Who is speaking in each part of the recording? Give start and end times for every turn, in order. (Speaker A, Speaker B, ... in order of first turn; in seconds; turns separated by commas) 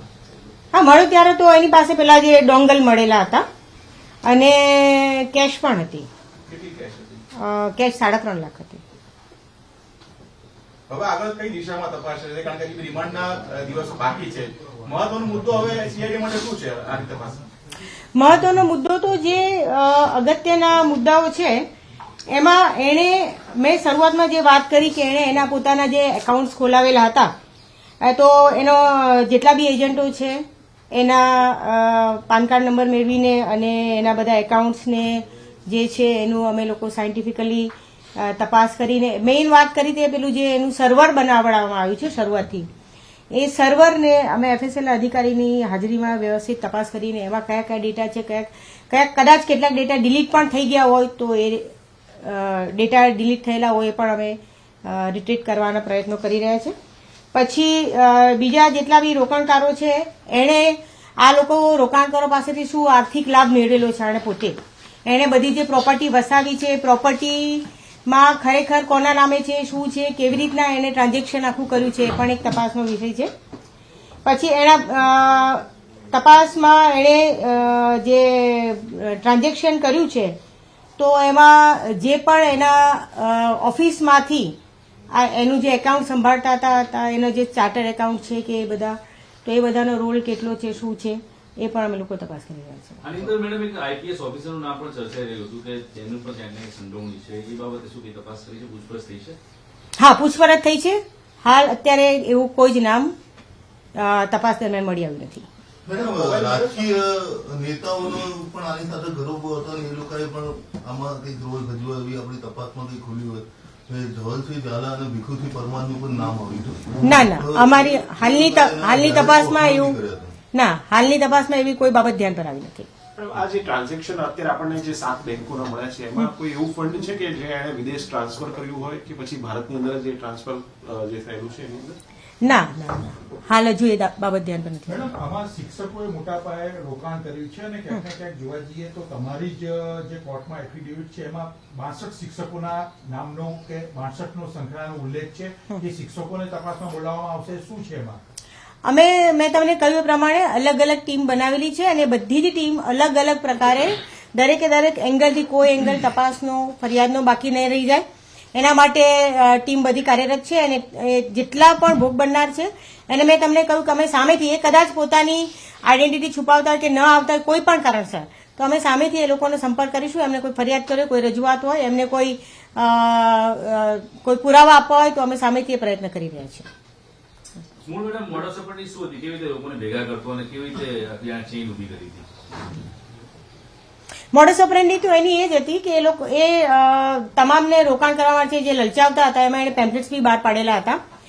Speaker A: 0.7-3.5, Speaker A: 4.2-6.1, Speaker B: 6.5-7.2, Speaker A: 7.4-8.8, Speaker B: 10.9-17.4, Speaker A: 18.1-21.6, Speaker A: 22.3-27.3, Speaker A: 28.0-42.7, Speaker A: 43.3-51.7, Speaker A: 52.2-56.7, Speaker A: 57.3-73.3, Speaker A: 74.2-80.3, Speaker A: 81.0-84.5, Speaker A: 85.1-93.2, Speaker C: 93.0-99.4, Speaker A: 100.0-103.1, Speaker A: 104.0-105.5, Speaker D: 105.8-120.3, Speaker C: 106.0-106.7, Speaker A: 117.0-120.0, Speaker A: 120.5-122.9, Speaker E: 123.2-132.0, Speaker A: 132.4-135.1, Speaker F: 134.9-148.2, Speaker A: 148.8-158.0, Speaker A: 158.5-176.7, Speaker C: 177.8-182.2, Speaker A: 184.3-191.0